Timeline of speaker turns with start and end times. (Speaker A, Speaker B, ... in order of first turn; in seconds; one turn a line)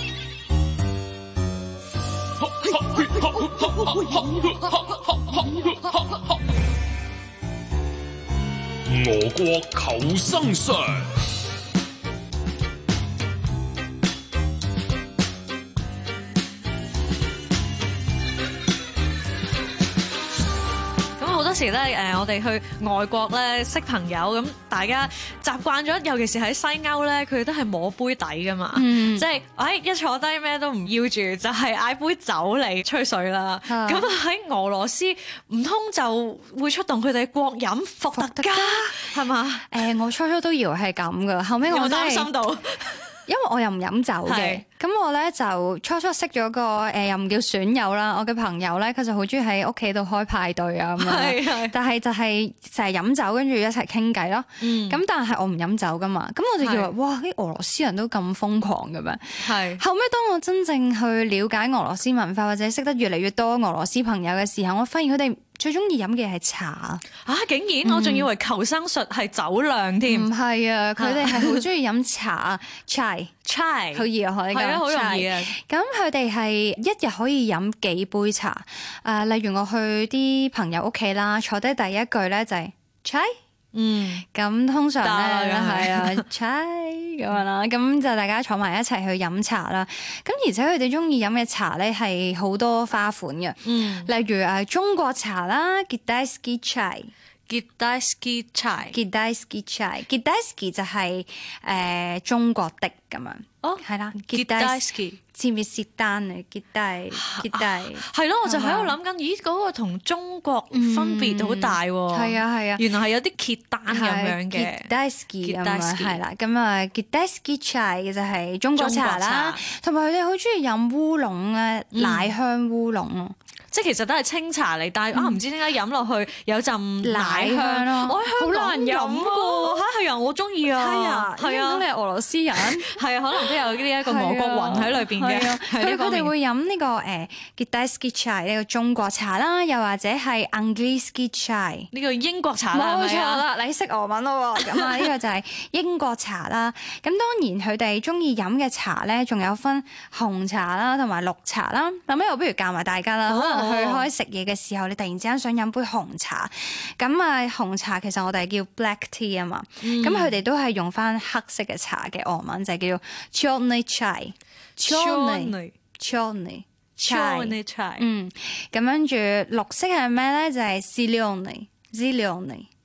Speaker A: 2.6-6.2
Speaker A: 8.9-11.1
Speaker B: 21.2-39.8
Speaker C: 28.7-29.3
Speaker C: 33.7-34.1
Speaker C: 38.1-42.3
Speaker B: 41.7-43.0
Speaker C: 43.3-67.0
Speaker B: 44.3-44.6
Speaker B: 51.0-51.8
Speaker B: 54.6-55.0
Speaker B: 56.6-56.9
Speaker B: 59.4-59.8
Speaker B: 67.2-70.3
Speaker C: 67.8-68.3
Speaker C: 70.1-73.3
Speaker B: 71.0-71.6
Speaker B: 73.5-75.5
Speaker C: 73.9-83.3
Speaker B: 83.7-84.2
Speaker C: 84.3-97.1
Speaker B: 85.0-86.2
Speaker B: 93.7-94.1
Speaker B: 97.5-99.0
Speaker C: 98.9-109.0
Speaker B: 103.6-105.2
Speaker B: 107.1-114.9
Speaker C: 110.7-112.9
Speaker C: 113.9-123.4
Speaker B: 115.4-116.2
Speaker B: 118.8-119.6
Speaker B: 121.9-122.3
Speaker B: 123.7-131.9
Speaker C: 125.1-125.4
Speaker C: 127.0-129.8
Speaker C: 130.7-132.9
Speaker B: 132.6-136.3
Speaker C: 134.0-141.9
Speaker B: 141.9-143.4
Speaker C: 142.7-172.7
Speaker B: 144.7-145.1
Speaker B: 153.3-154.1
Speaker B: 159.8-160.4
Speaker B: 164.8-165.7
Speaker B: 167.0-168.1